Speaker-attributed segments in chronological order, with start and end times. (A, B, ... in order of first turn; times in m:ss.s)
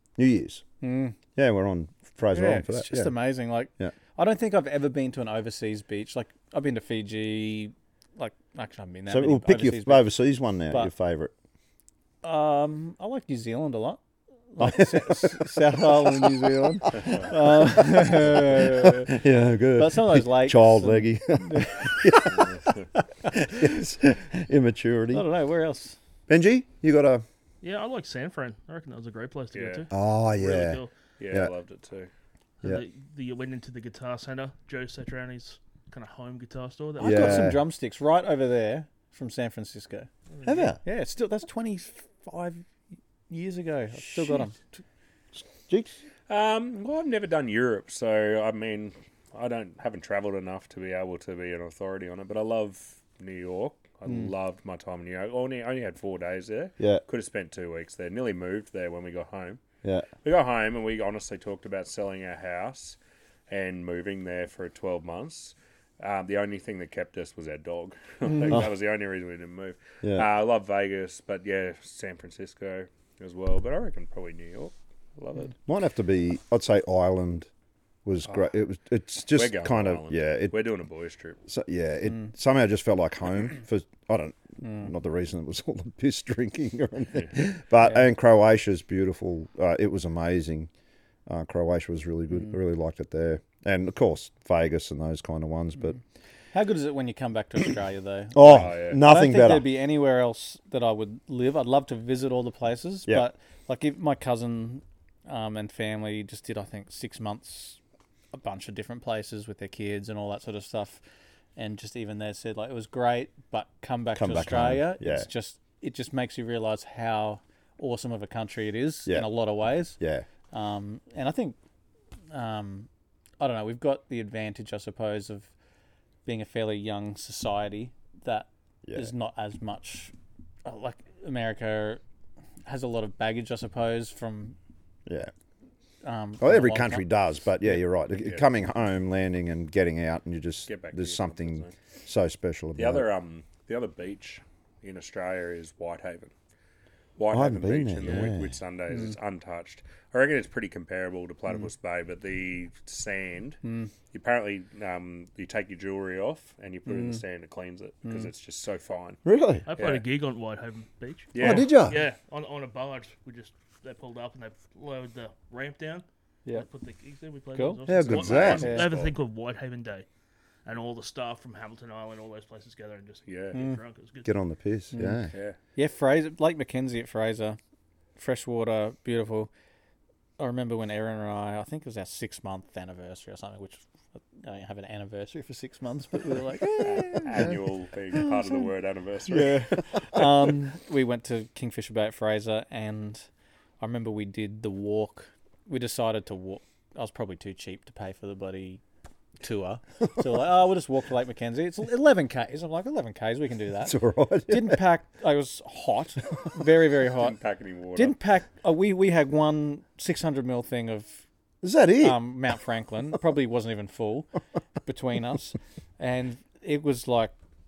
0:00.2-0:00.6 A
0:00.8-0:01.2 B
0:01.4-0:03.1 A
0:02.3-0:10.1 B
0:09.1-0:11.3 A
0:12.2-0:19.2 B
0:14.6-0:22.5 A
0:19.8-0:22.4 B
0:22.3-0:22.8 C
0:23.0-0:23.8 B
0:23.3-0:25.2 A
0:25.1-0:26.0 B
0:26.3-0:27.2 A
0:27.6-0:30.9 D
0:29.5-0:29.8 C
0:29.9-0:30.8 A
0:31.2-0:32.1 C
0:32.6-0:37.5 D
0:37.0-0:37.6 A
0:37.0-0:40.1 B
0:40.4-0:40.8 A
0:40.8-0:42.6 B
0:43.3-0:44.6 B
0:45.4-0:46.0 A
0:46.3-0:59.6 C
1:00.2-1:03.0 C
1:03.5-1:15.5 C
1:10.0-1:10.3 A
1:15.7-1:17.5 A
1:18.0-1:20.6 A
1:19.3-1:21.4 C
1:21.5-1:30.7 A
1:31.3-1:36.0 A
1:36.5-1:47.8 B
1:38.3-1:39.6 A
1:38.4-1:39.0 C
1:48.3-1:51.0 B
1:51.6-2:00.0 B
1:54.2-1:55.3 A
2:00.0-2:00.2 A
2:00.5-2:01.6 B
2:02.3-2:02.9 B
2:03.4-2:05.5 B
2:06.2-2:10.1 B
2:08.8-2:09.1 A
2:10.6-2:12.0 B
2:12.7-2:14.6 B
2:15.0-2:15.3 A
2:16.0-2:17.0 B
2:16.4-2:23.0 A
2:18.2-2:18.4 C
2:20.7-2:21.7 C
2:22.8-2:26.3 C
2:27.2-2:33.6 C
2:27.3-2:28.5 A
2:33.6-2:33.9 B
2:34.1-2:39.2 C
2:36.9-2:37.2 B
2:39.2-2:39.6 A
2:39.7-2:50.0 D
2:39.7-2:40.0 C
2:41.3-2:41.8 C
2:41.4-2:42.0 A
2:47.5-2:47.8 B
2:47.9-2:48.7 A
2:48.0-2:49.1 C
2:48.6-2:48.9 B
2:50.6-2:54.3 D
2:53.3-2:53.6 C
2:53.5-2:53.8 B
2:54.2-2:55.3 A
2:54.9-2:55.2 B
2:55.3-2:55.6 C
2:55.8-2:57.6 B
2:58.2-2:59.5 B
3:00.4-3:07.5 B
3:06.8-3:09.8 C
3:09.3-3:13.2 B
3:13.8-3:18.8 B
3:19.4-3:23.9 B
3:23.8-3:24.8 A
3:24.5-3:27.4 B
3:27.2-3:28.1 C
3:27.9-3:31.2 B
3:31.6-3:32.2 A
3:32.0-3:34.3 B
3:34.8-3:37.3 B